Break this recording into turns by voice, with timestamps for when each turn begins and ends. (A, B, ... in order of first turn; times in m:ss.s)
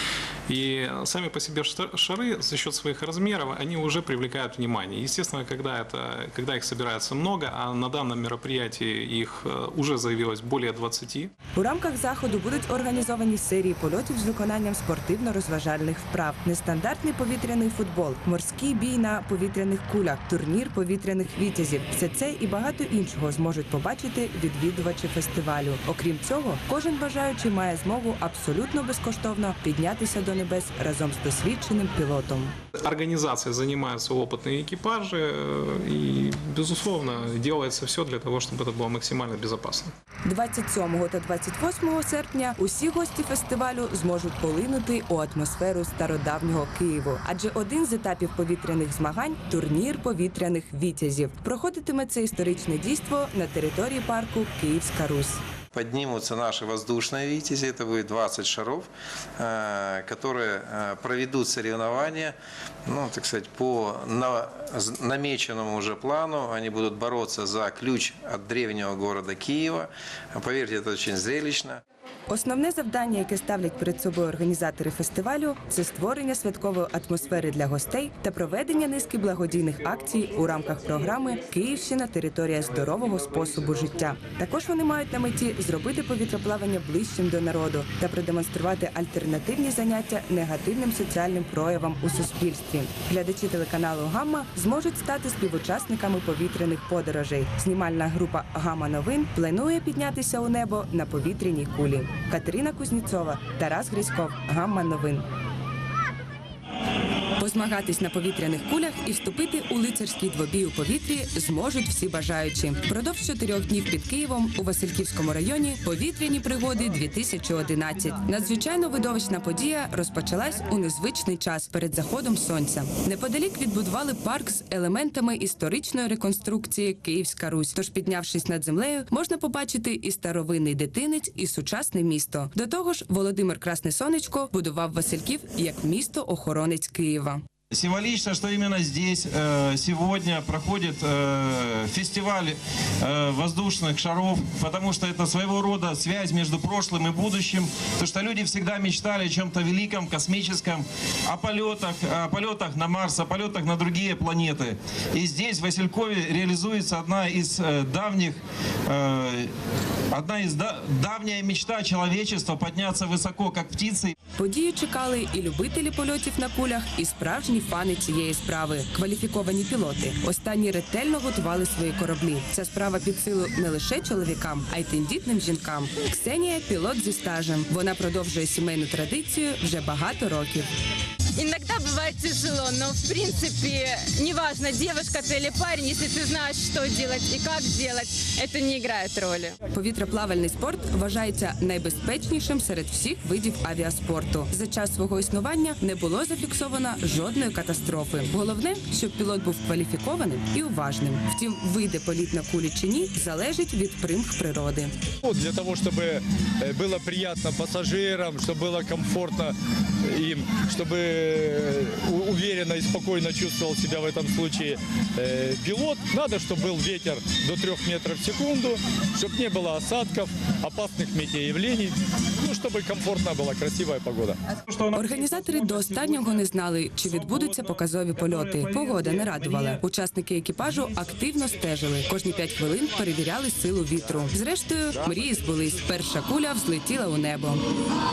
0:00.5-0:11.3 A
0:11.5-0:32.5 B
0:32.8-0:39.9 A
0:40.2-0:55.4 B
0:55.7-0:58.9 C
0:59.4-1:02.4 C
1:02.9-1:11.8 C
1:12.3-1:45.2 B
1:47.4-2:17.4 B
2:17.7-2:39.5 D
2:40.1-2:44.1 D
2:44.4-3:00.7 B
3:01.4-3:09.5 E
3:09.7-3:24.9 B
3:25.2-3:44.4 F
3:44.9-3:57.6 B
3:48.5-3:49.6 D